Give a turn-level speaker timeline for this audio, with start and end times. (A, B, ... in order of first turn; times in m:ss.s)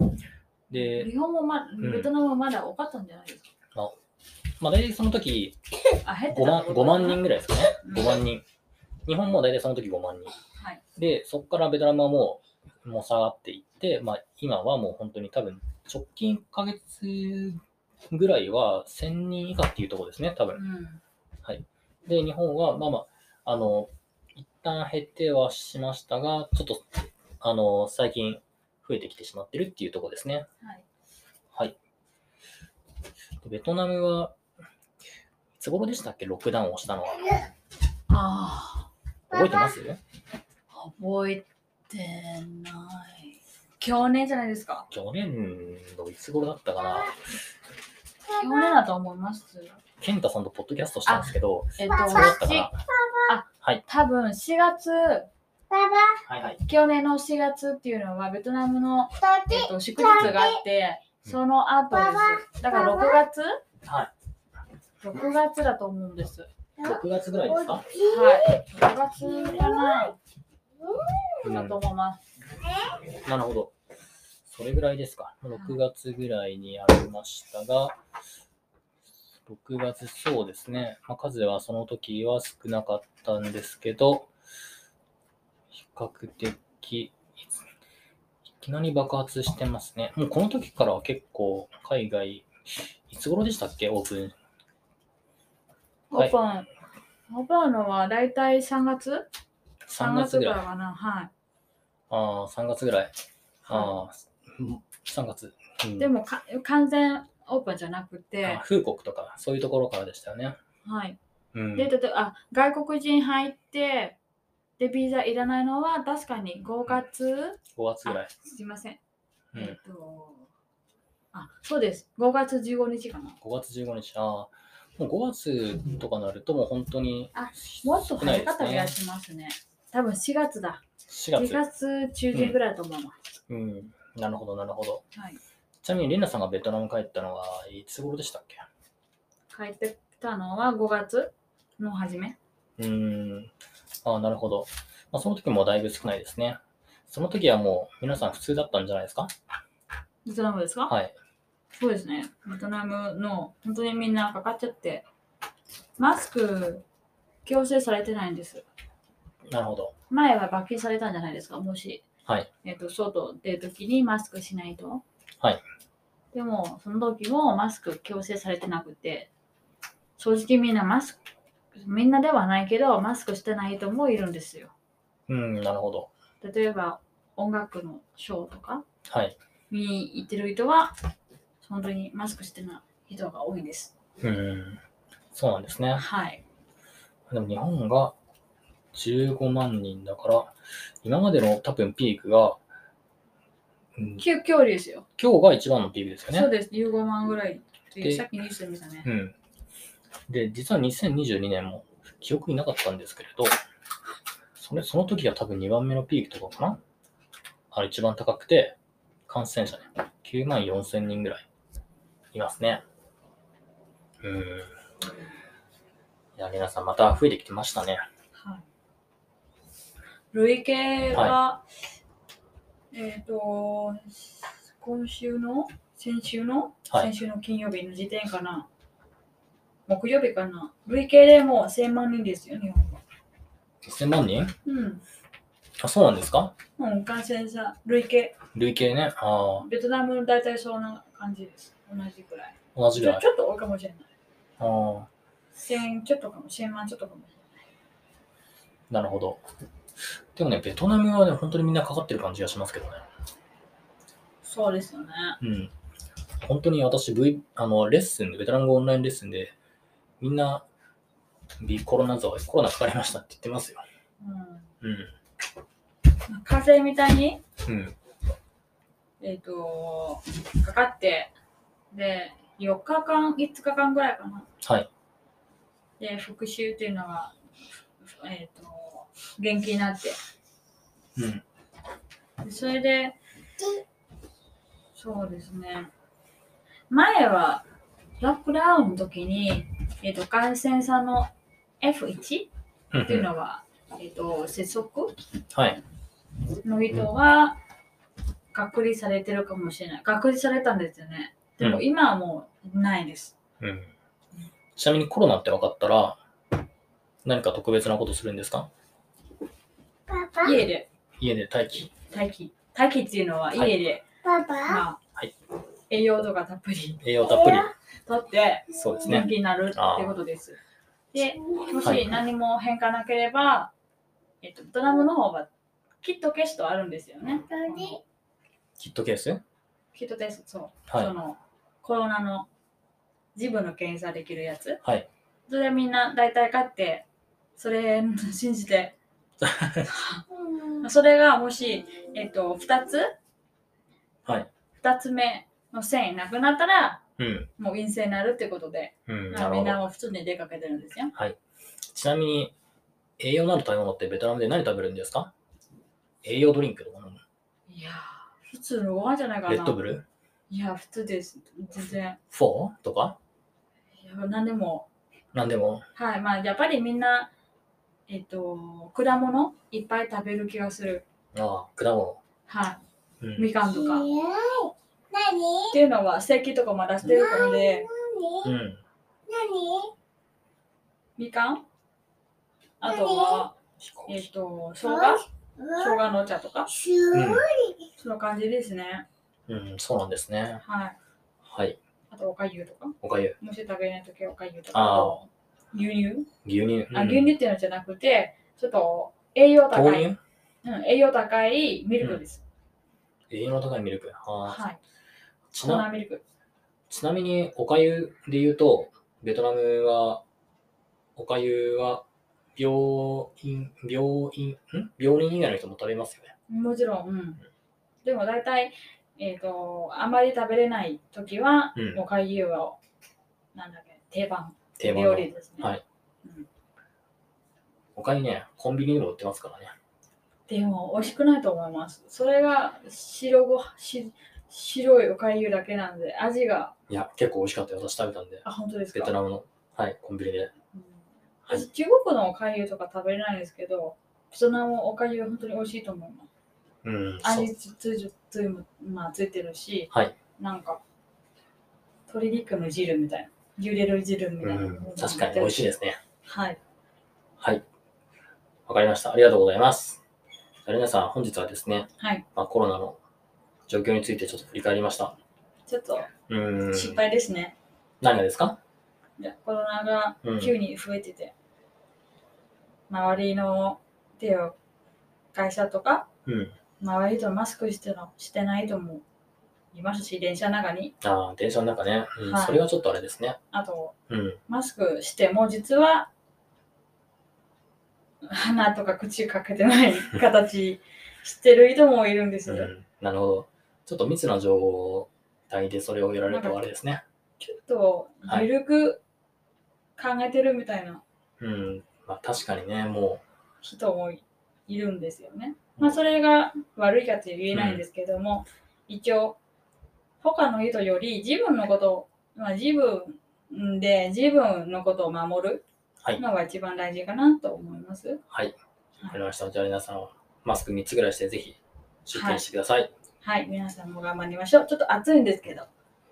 0:00.7-0:01.1 A
0:00.7-0:03.5 B
0:01.8-0:02.1 A
0:04.6-0:05.6 A
0:06.0-0:07.2 B
0:06.3-0:08.4 A
0:07.8-0:08.2 B
0:09.0-0:10.4 A
0:10.6-0:10.8 B
0:11.0-0:20.6 A
0:20.5-0:21.0 B
0:21.4-0:26.8 A
0:27.4-0:30.5 A
0:33.4-0:34.4 A
0:35.6-0:37.5 A
0:38.1-0:38.9 B
0:39.3-0:40.0 A
0:40.7-0:44.9 B
0:44.9-0:47.2 A
0:48.3-0:49.8 B
0:50.0-0:52.8 A
0:51.0-0:52.7 B
0:53.2-0:55.3 B
0:55.7-0:56.2 C
0:56.2-0:56.6 A
0:56.6-1:03.6 B
0:59.2-0:59.6 C
1:03.8-1:04.1 A
1:05.0-1:06.5 B
1:06.8-1:07.9 A
1:07.6-1:08.3 C
1:07.9-1:10.2 B
1:11.4-1:11.8 A
1:11.4-1:12.2 B
1:13.1-1:13.7 A
1:14.5-1:18.0 A
1:15.5-1:15.8 B
1:19.4-1:24.3 A
1:25.7-1:27.6 A
1:28.6-1:34.4 A
1:36.1-1:36.7 B
1:37.3-1:39.3 B
1:39.9-1:40.6 A
1:40.0-1:41.3 B
1:42.1-1:46.1 A
1:43.7-1:44.0 B
1:46.0-1:48.6 B
1:48.4-1:50.6 A
1:50.8-1:51.2 B
1:51.5-1:51.9 A
1:51.8-1:54.2 B
1:54.8-1:59.0 B
1:57.8-1:58.4 A
1:59.5-2:00.5 B
2:01.3-2:03.4 B
2:03.4-2:08.9 A
2:07.3-2:10.8 B
2:11.1-2:11.6 A
2:11.3-2:13.2 B
2:12.3-2:12.6 A
2:13.5-2:15.0 A
2:15.1-2:15.4 B
2:15.8-2:18.6 A
2:19.5-2:22.4 B
2:22.8-2:23.5 A
2:24.0-2:29.3 A
2:30.2-2:30.9 B
2:30.9-2:31.1 A
2:31.8-2:35.0 B
2:36.0-2:36.8 B
2:37.4-2:38.6 B
2:39.5-2:39.9 A
2:40.1-2:42.0 B
2:42.6-2:45.0 B
2:46.3-2:49.3 B
2:50.2-2:51.2 B
2:51.8-2:54.7 B
2:55.3-2:56.1 A
2:56.4-2:58.8 B
2:59.1-2:59.4 A
2:59.7-3:01.0 B
3:01.6-3:03.9 B
3:04.2-3:04.8 A
3:05.3-3:06.0 A
3:06.0-3:06.4 B
3:07.3-3:08.1 A
3:08.9-3:12.6 A
3:14.0-3:14.2 A
3:14.2-3:15.0 B
3:15.2-3:16.5 A
3:16.3-3:19.1 B
3:18.0-3:18.2 A
3:19.0-3:19.3 A
3:20.3-3:23.5 A
3:24.6-3:26.8 A
3:27.7-3:28.8 A
3:29.3-3:31.4 A
3:32.3-3:32.8 A
3:34.2-3:34.7 A
3:35.0-3:35.3 B
3:36.4-3:38.0 A
3:38.4-3:38.6 B
3:40.3-3:41.6 B
3:42.9-3:48.6 B
3:49.9-3:53.0 B
3:53.8-3:54.5 A
3:54.6-3:55.0 B
3:55.8-3:56.5 A
3:56.8-3:58.3 B
3:58.5-3:59.6 A
3:59.6-4:04.1 B
4:02.7-4:03.2 A
4:04.6-4:05.1 A
4:05.6-4:07.5 B
4:08.9-4:09.4 A
4:10.3-4:13.0 A
4:14.4-4:15.4 B
4:15.4-4:15.7 A
4:16.4-4:19.5 A
4:20.2-4:20.6 A
4:21.6-4:23.8 A
4:24.2-4:24.7 B
4:24.8-4:25.1 A
4:26.3-4:27.4 B
4:27.6-4:28.0 A
4:29.2-4:31.3 B
4:31.9-4:34.5 B
4:34.6-4:34.9 A
4:36.0-4:37.3 B
4:38.0-4:40.2 B
4:41.2-4:41.4 A
4:42.4-4:43.2 B
4:44.9-4:45.9 B
4:46.9-4:47.6 B
4:48.2-4:51.3 B
4:51.8-4:52.5 B
4:52.9-4:53.3 A
4:53.0-4:55.2 B
4:55.5-4:55.8 A
4:56.6-4:57.6 B
4:58.5-5:03.3 B
5:03.6-5:03.9 A
5:04.8-5:06.2 A
5:07.2-5:08.7 A
5:10.1-5:10.4 C
5:10.4-5:10.9 B
5:11.2-5:11.9 A
5:12.1-5:14.0 B
5:14.2-5:14.7 C
5:14.6-5:15.0 B
5:15.9-5:17.0 B
5:17.0-5:17.7 A
5:18.0-5:20.6 B
5:18.7-5:20.2 A
5:21.1-5:23.7 B
5:21.8-5:22.1 A
5:24.4-5:25.5 B
5:26.0-5:28.0 B
5:28.8-5:29.4 A
5:29.9-5:32.5 B
5:30.9-5:31.1 A
5:33.3-5:34.8 B
5:34.8-5:35.1 A
5:35.5-5:37.0 B
5:37.6-5:38.9 B
5:39.4-5:39.9 A
5:39.8-5:43.1 B
5:44.8-5:47.0 B
5:47.2-5:47.5 A
5:47.6-5:51.1 B
5:49.1-5:49.8 A
5:51.9-5:52.5 A
5:53.2-5:55.3 A
5:56.2-5:57.2 A
5:57.7-5:59.8 B
5:59.5-6:00.0 A
6:00.5-6:02.2 B
6:02.3-6:03.2 A
6:04.0-6:04.9 B
6:05.3-6:05.8 A
6:05.9-6:07.3 B
6:08.1-6:11.0 B
6:11.3-6:12.2 A
6:12.5-6:12.8 B
6:13.2-6:13.6 A
6:13.4-6:14.1 B
6:13.9-6:15.7 C
6:15.7-6:17.9 B
6:17.2-6:18.4 C
6:18.4-6:18.8 A
6:19.3-6:19.9 C
6:21.2-6:21.6 B
6:22.8-6:26.7 B
6:23.0-6:23.4 C
6:23.8-6:24.2 A
6:26.7-6:27.8 C
6:27.1-6:27.5 A
6:28.0-6:29.0 B
6:29.5-6:30.6 A
6:30.6-6:31.0 B
6:31.4-6:31.8 A
6:32.1-6:36.3 B
6:33.0-6:33.4 A
6:34.7-6:35.2 A
6:36.4-6:37.3 A
6:36.9-6:40.1 B
6:39.7-6:40.2 A
6:40.6-6:42.4 B
6:43.3-6:44.6 A
6:44.4-6:44.8 B
6:45.5-6:45.8 A
6:45.6-6:46.2 B
6:46.9-6:50.2 A
6:51.2-6:52.0 A
6:52.6-6:56.3 A
6:56.5-6:57.4 B
6:58.0-7:02.8 B
7:01.8-7:02.0 A
7:03.5-7:05.7 B
7:04.8-7:05.8 A
7:07.9-7:09.7 A
7:10.5-7:16.7 B
7:16.9-7:20.5 A
7:18.4-7:19.1 B
7:20.7-7:26.3 B
7:26.8-7:27.5 A
7:27.2-7:30.8 B
7:32.1-7:35.6 B
7:34.4-7:36.0 A
7:36.2-7:36.6 B
7:37.4-7:37.6 A
7:38.6-7:40.0 A
7:40.6-7:43.0 A
7:42.0-7:42.2 B
7:43.7-7:45.2 A
7:45.7-7:46.1 B
7:46.3-7:47.0 A
7:46.7-7:47.5 B
7:48.0-7:48.6 A
7:49.2-7:51.3 B
7:50.2-7:50.5 A
7:52.9-7:54.6 B
7:55.3-7:56.1 B
7:56.2-7:56.6 A
7:56.8-7:59.0 B
7:59.7-8:00.9 B
8:01.0-8:03.4 A
8:02.2-8:02.6 B
8:03.5-8:03.9 B
8:04.1-8:04.4 A
8:04.5-8:06.1 B
8:08.2-8:12.7 B
8:12.5-8:17.0 A
8:16.3-8:16.6 B
8:17.4-8:19.0 B
8:20.0-8:21.0 B
8:21.4-8:23.2 A
8:23.6-8:29.4 B
8:27.5-8:27.8 A
8:30.2-8:35.6 B
8:36.2-8:38.2 B
8:38.3-8:38.6 A
8:39.1-8:42.9 A
8:42.1-8:42.4 B
8:43.2-8:45.7 B